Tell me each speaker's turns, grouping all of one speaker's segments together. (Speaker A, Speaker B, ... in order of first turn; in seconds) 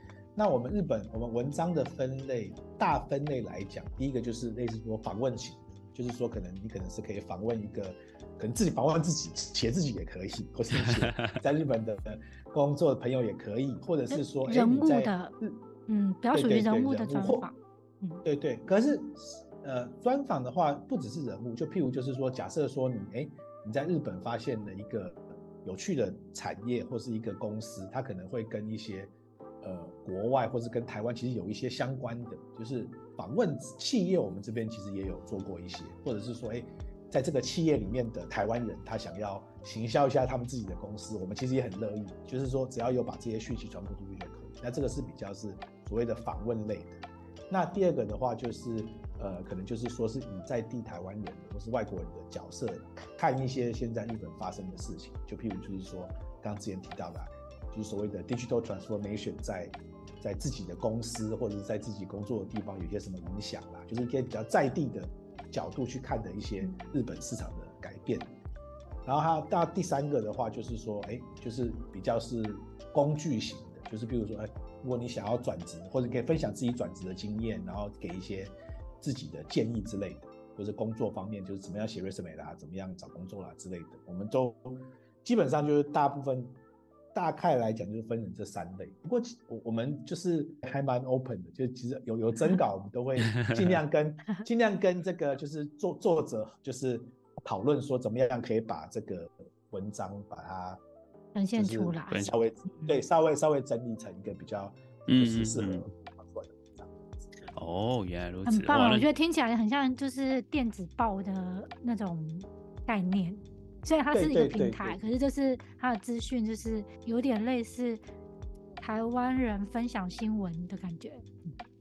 Speaker A: 0.3-15.6, 16.3-17.5, 18.2-68.3, 69.0-86.6, 87.1-100.8, 101.5-107.5, 114.1-115.0
Speaker B: 10.8-11.4, 105.1-105.8, 107.5-109.1
Speaker C: 14.1-15.3, 15.9-18.2, 101.3-102.9, 108.5-118.0, 118.8-121.2